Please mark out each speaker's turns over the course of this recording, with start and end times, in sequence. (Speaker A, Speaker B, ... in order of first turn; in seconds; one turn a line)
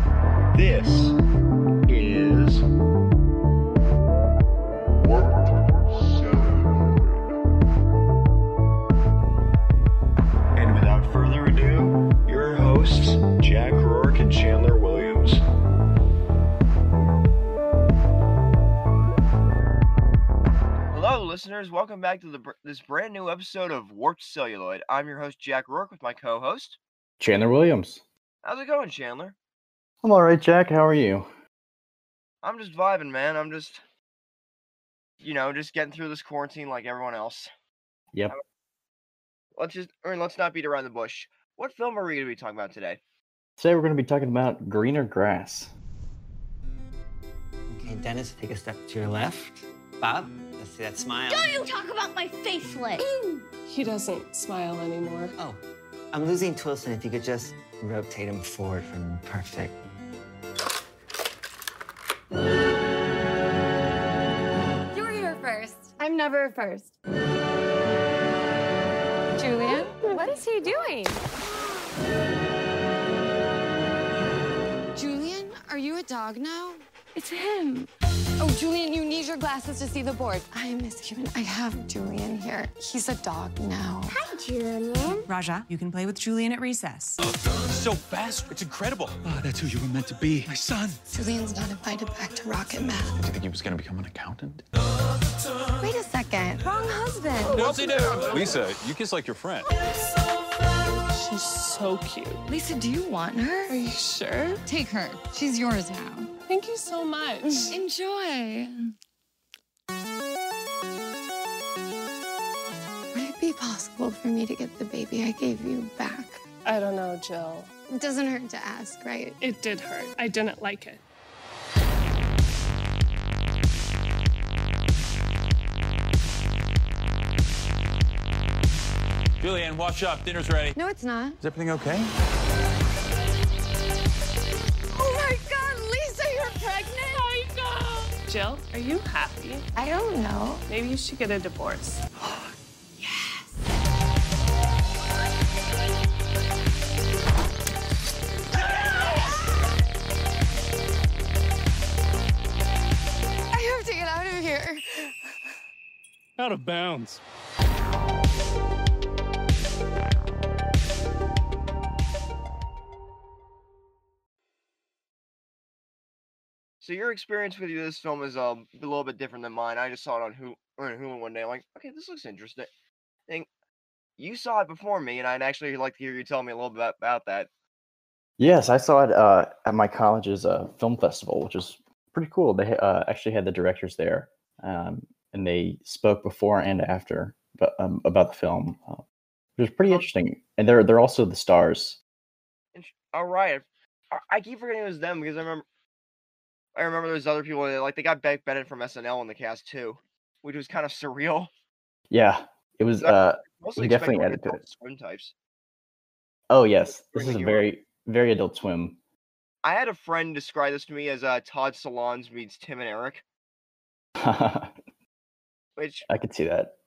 Speaker A: 0.5-1.1
Speaker A: 1.9-2.6
Speaker A: 6.2-6.9
Speaker A: 10.6-15.4
Speaker B: 20.9-26.8
Speaker C: 27.2-28.0
Speaker B: 28.4-29.4
Speaker C: 30.0-31.3
Speaker B: 32.4-33.8
Speaker B: 35.2-37.5
Speaker B: 39.6-43.0
Speaker C: 43.6-45.7
Speaker D: 47.8-51.6
Speaker E: 51.3-53.1
Speaker F: 53.0-55.3
Speaker D: 55.4-55.6
Speaker D: 56.1-59.8
Speaker G: 64.9-66.9
Speaker G: 69.4-71.2
Speaker G: 75.0-84.2
Speaker E: 84.1-85.3
Speaker H: 85.2-87.2
Speaker I: 87.6-91.0
Speaker G: 91.1-93.2
Speaker I: 93.2-94.6
Speaker G: 95.8-98.4
Speaker I: 97.5-99.7
Speaker F: 101.1-102.4
Speaker G: 102.5-103.7
Speaker F: 103.7-104.6
Speaker G: 104.7-106.3
Speaker F: 106.5-107.8
Speaker G: 107.6-108.9
Speaker G: 113.1-116.4
Speaker F: 116.7-117.7
Speaker G: 117.9-119.4
Speaker F: 119.4-121.0
Speaker I: 129.4-130.8
Speaker G: 130.8-131.4
Speaker I: 131.4-132.1
Speaker G: 134.9-138.1
Speaker F: 138.3-139.7
Speaker G: 139.8-140.7
Speaker F: 140.7-142.0
Speaker G: 153.5-155.2
Speaker I: 156.4-157.2
Speaker B: 166.8-172.7
Speaker B: 174.2-177.5
Speaker C: 178.4-189.0
Speaker C: 189.6-192.0
Speaker B: 192.8-195.7
Speaker B: 196.8-201.5
Speaker C: 202.1-204.6
Speaker B: 203.0-205.3
Speaker C: 206.5-209.0
Speaker B: 206.9-207.7
Speaker B: 209.6-213.2
Speaker C: 214.2-214.7
Speaker B: 215.8-216.1
Speaker C: 216.1-216.8